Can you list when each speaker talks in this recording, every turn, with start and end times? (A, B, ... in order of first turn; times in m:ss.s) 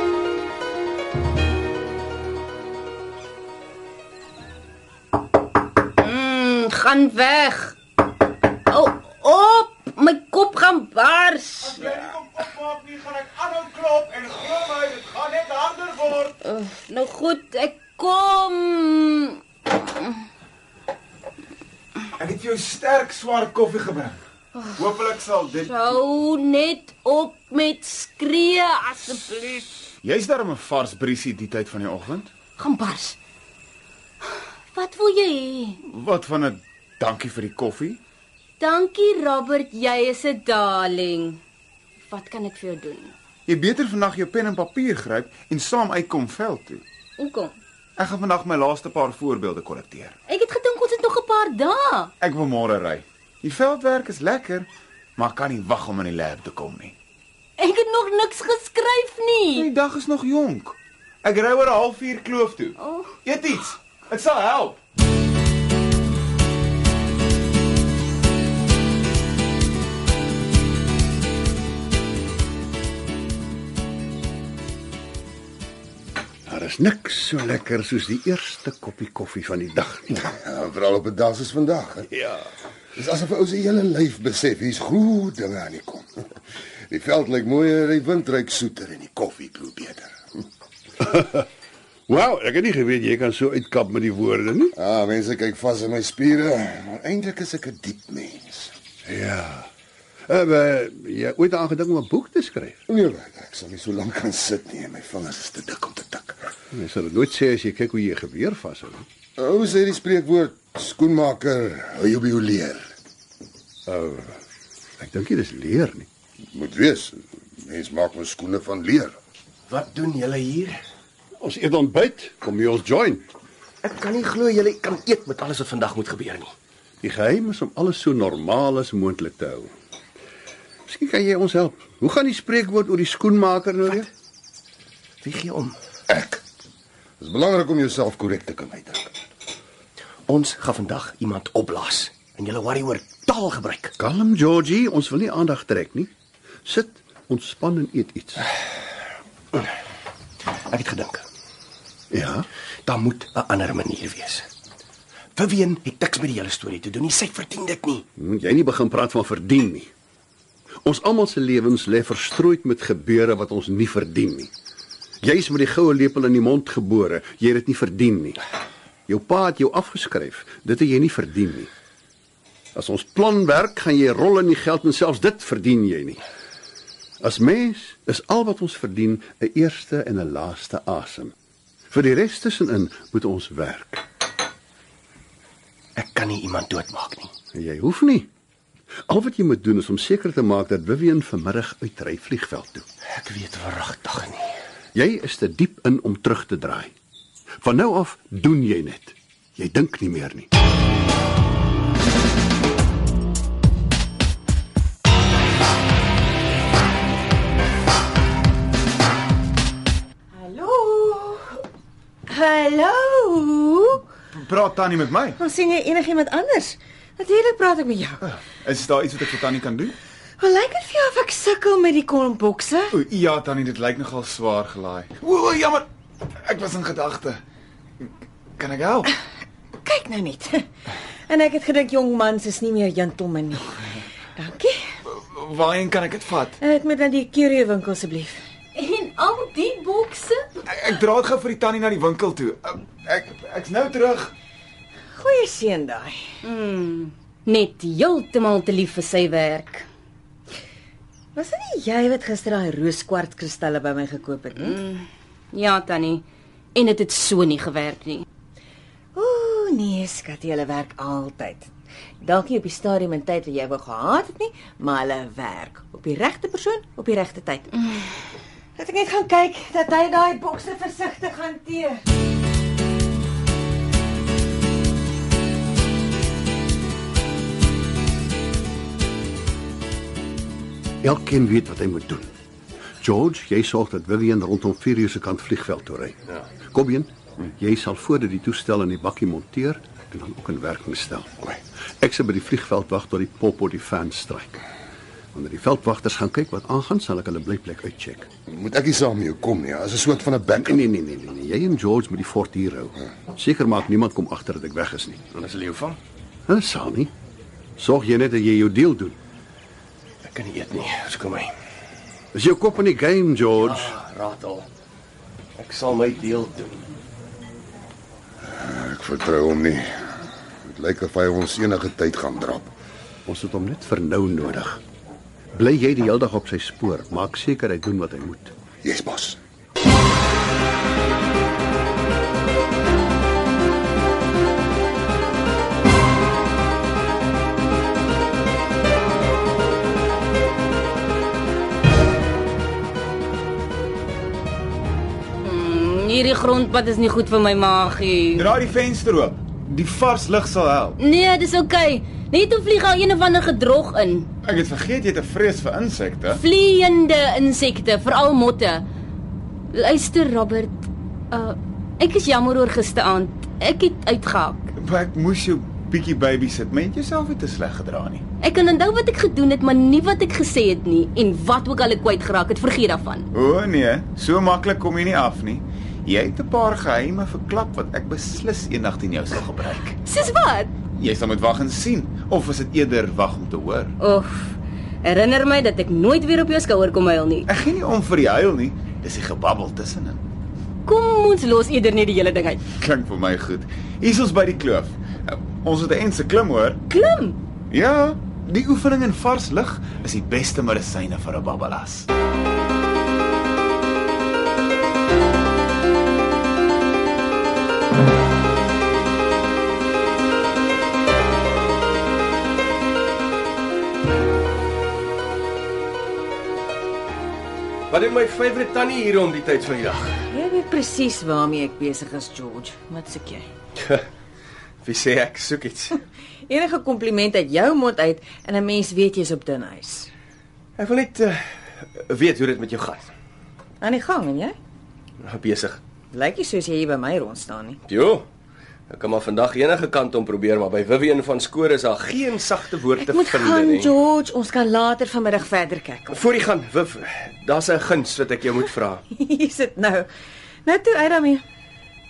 0:06.0-0:07.8 A
0:08.7-0:11.9 A
0:11.6-0:16.4 B
0:16.4-0:19.4 A
0:22.2-0:24.2 B
0:24.6-0:24.8 A
0:24.8-0:25.7 B
0:25.6-0:29.7 A
0:30.0-0:32.3 B
0:32.6-0:33.2 A
0:34.7-0:35.8 A
0:35.8-0:38.0 B
0:38.6-0:41.4 A
0:42.0-0:43.1 A
0:43.5-0:46.8 B
0:47.2-0:47.6 A
0:48.0-0:50.2 B
0:50.3-0:52.1 A
0:52.2-0:57.0 B
0:57.6-0:59.7 A
0:59.6-1:04.8 B
1:02.8-1:03.1 A
1:16.5-1:20.2 C
1:20.2-1:22.1 D
1:22.1-1:22.5 C
1:23.0-1:26.3 D
1:26.9-1:30.2 D
1:31.0-1:31.5 C
1:32.1-1:34.8 C
1:34.8-1:38.7 D
1:39.1-1:39.7 C
1:40.3-1:42.8 C
1:42.9-1:46.5 D
1:46.7-1:49.1 C
1:49.4-1:52.9 D
1:53.9-1:54.2 C
1:55.0-1:56.1 C
1:56.5-1:59.2 D
1:59.7-2:00.8 E
2:01.4-2:03.3 C
2:03.8-2:06.5 E
2:07.0-2:09.7 C
2:10.9-2:14.1 C
2:15.2-2:15.8 E
2:16.1-2:16.4 D
2:17.2-2:19.1 D
2:20.3-2:23.9 E
2:24.0-2:26.1 C
2:26.6-2:28.5 C
2:30.7-2:31.2 E
2:32.1-2:32.5 C
2:32.9-2:34.5 E
2:35.4-2:38.0 E
2:38.2-2:39.9 C
2:40.8-2:44.5 C
2:45.2-2:48.4 C
2:49.1-2:51.7 C
2:52.8-2:56.2 C
2:57.2-3:01.3 C
3:01.9-3:04.0 C
3:06.0-3:07.3 E
3:07.5-3:08.3 C
3:09.1-3:12.9 C
3:13.1-3:14.5 E
3:14.9-3:16.9 C
3:17.6-3:20.5 C
3:30.3-3:31.6 F
3:32.3-3:34.0 F
3:34.3-3:35.4 B
3:35.4-3:38.3 F
3:38.3-3:40.0 B
3:40.4-3:42.9 F
3:42.9-3:45.9 B
3:46.4-3:47.4 B
3:48.6-3:49.1 B
3:49.8-3:50.6 F
3:51.3-3:54.8 F
3:55.1-3:56.6 B
3:56.6-3:58.4 F
3:58.8-4:00.4 A
4:00.7-4:04.3 B
4:05.2-4:06.2 F
4:06.4-4:09.9 A
4:11.4-4:14.8 F
4:14.6-4:18.2 A
4:19.2-4:21.7 F
4:22.2-4:27.9 F
4:28.8-4:32.0 F
4:41.0-4:42.3 C
4:43.0-4:46.2 C
4:46.7-4:51.5 C
4:52.0-4:54.6 C
4:55.3-4:58.3 C
4:58.5-5:00.8 D
5:00.6-5:05.3 C
5:05.3-5:06.0 E
5:06.5-5:07.1 C
5:07.8-5:09.2 C
5:10.2-5:11.5 E
5:12.3-5:13.9 C
5:13.6-5:14.7 E
5:15.6-5:16.8 E
5:18.4-5:19.9 D
5:20.6-5:22.7 D
5:23.3-5:24.8 C
5:25.6-5:28.5 C
5:28.8-5:29.4 D
5:45.4-5:48.5 A
5:48.4-5:51.0 B
5:51.0-5:54.3 A
5:54.4-5:56.4 B
5:56.3-5:58.8 A
5:59.7-6:04.7 A
6:04.8-6:08.2 B
6:08.4-6:13.3 A
6:13.3-6:20.0 B
6:20.0-6:20.7 A
6:21.0-6:23.9 B
6:24.0-6:27.5 A
6:27.5-6:30.2 B
6:30.8-6:32.6 A
6:32.8-6:36.8 B
6:36.9-6:37.4 A
6:37.7-6:42.1 B
6:57.9-7:00.2 E
7:00.3-7:03.5 F
7:04.8-7:06.0 E
7:06.5-7:10.1 F
7:10.8-7:13.1 E
7:13.8-7:14.6 F
7:15.2-7:15.8 E
7:16.1-7:17.8 F
7:17.9-7:18.3 E
7:18.9-7:23.9 E
7:23.0-7:26.2 F
7:26.1-7:29.0 E
7:29.1-7:30.1 F
7:30.6-7:31.4 F